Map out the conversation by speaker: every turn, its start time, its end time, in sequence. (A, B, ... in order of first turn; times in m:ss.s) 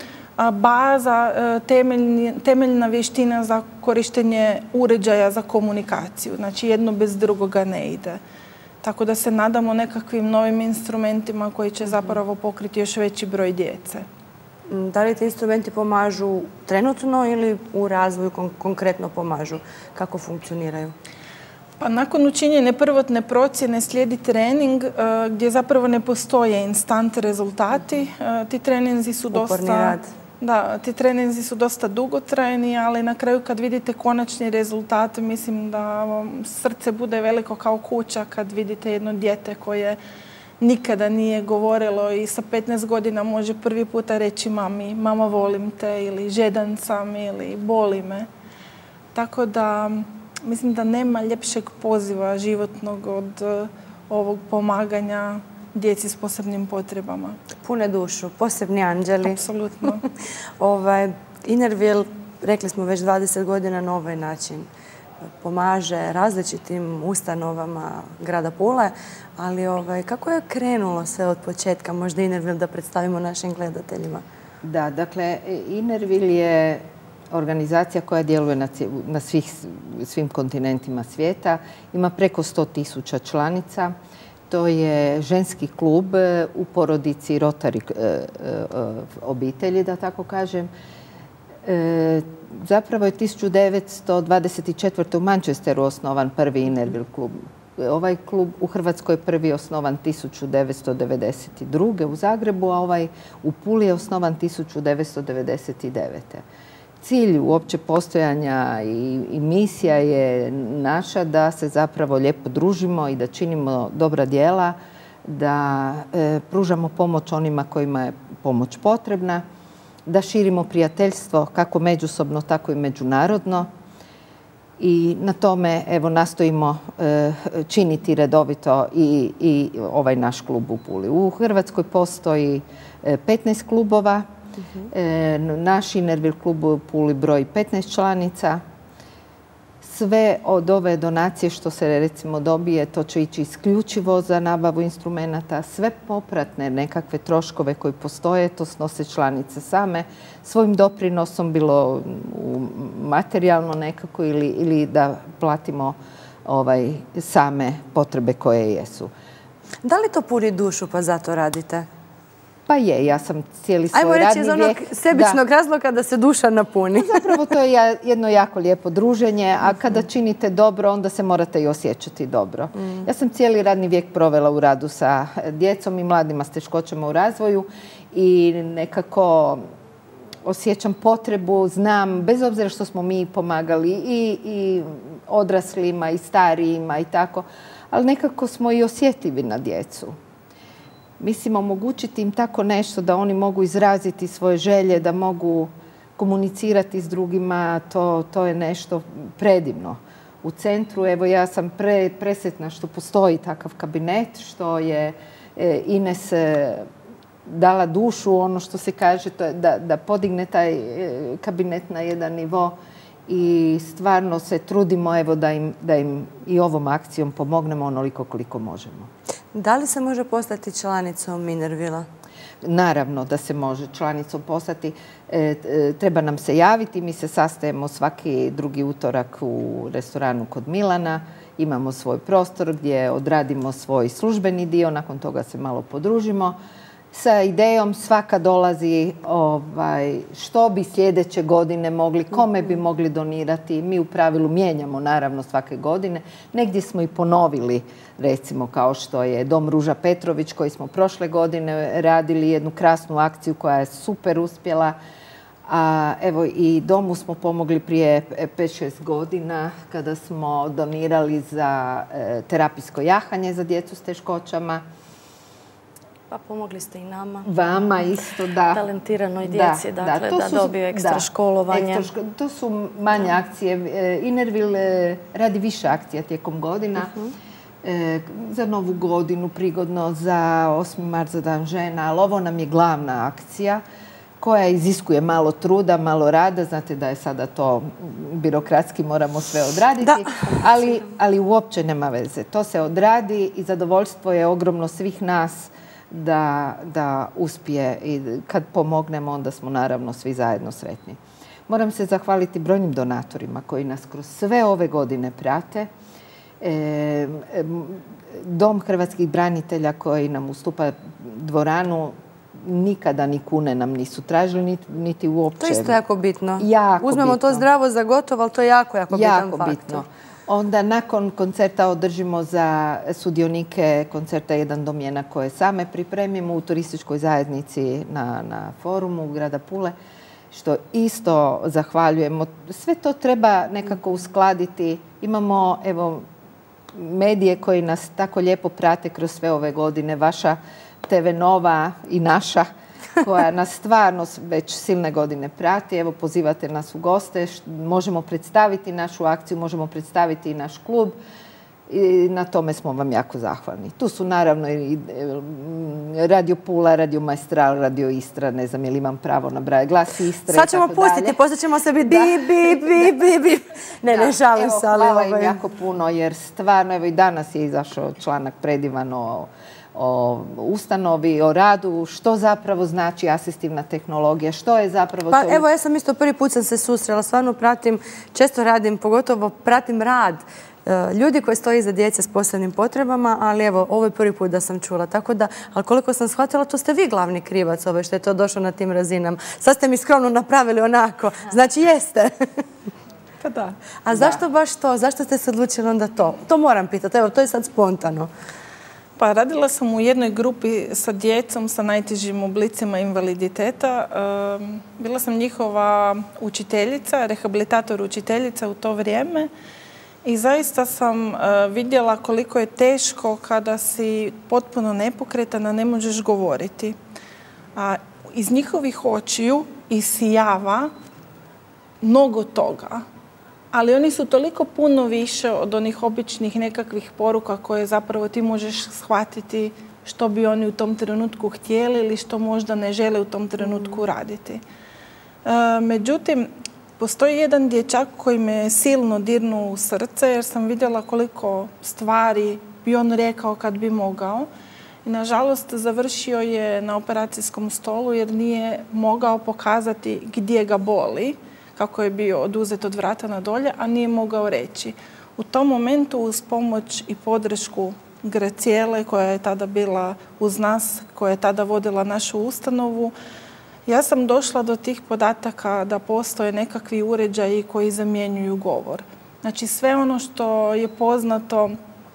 0:00.4-0:08.2 A
0:08.8-0:14.0 A
0:14.7-0:20.9 B
0:21.8-0:40.0 A
0:29.3-0:30.1 B
0:40.6-0:48.3 A
0:49.2-0:57.4 A
0:57.6-0:59.4 B
0:59.2-1:00.0 A
1:00.6-1:04.7 B
1:05.4-1:14.2 B
1:14.6-1:23.9 C
1:24.5-1:30.7 C
1:31.6-1:46.4 C
1:47.0-1:54.8 C
1:55.3-1:59.4 C
2:00.1-2:03.7 C
2:04.8-2:14.2 C
2:14.6-2:14.9 B
2:14.9-2:18.6 C
2:19.8-2:36.0 C
2:36.5-2:39.1 C
2:39.8-2:41.9 B
2:42.7-2:45.4 C
2:43.9-2:47.3 B
2:47.0-2:59.6 C
2:52.8-2:53.1 B
3:00.4-3:10.2 C
3:11.2-3:26.9 C
3:27.5-3:32.8 C
3:33.3-3:39.1 C
3:39.5-3:42.1 B
3:42.6-3:56.6 C
3:57.1-4:15.0 C
4:15.7-4:24.8 C
4:26.3-4:27.5 D
4:27.4-4:28.8 C
4:28.7-4:32.1 D
4:29.4-4:37.1 C
4:37.8-4:43.8 C
4:44.4-5:01.2 C
5:01.7-5:05.9 C
5:06.6-5:16.0 C
5:15.6-5:20.0 B
5:16.6-5:17.6 C
5:19.1-5:29.9 C
5:30.5-5:36.3 C
5:37.0-5:42.7 C
5:43.2-5:51.2 C
5:51.9-6:01.4 C
6:00.5-6:05.6 B
6:02.0-6:03.2 C
6:04.1-6:15.6 C
6:15.3-6:32.6 B
6:33.4-6:33.8 A
6:34.0-6:38.3 B
6:34.1-6:34.4 C
6:39.2-6:49.5 A
6:50.2-6:57.0 A
6:57.8-7:00.9 A
7:02.0-7:03.0 A
7:03.7-7:14.6 A
7:15.4-7:24.5 A
7:25.0-7:43.1 A
7:43.9-7:51.8 A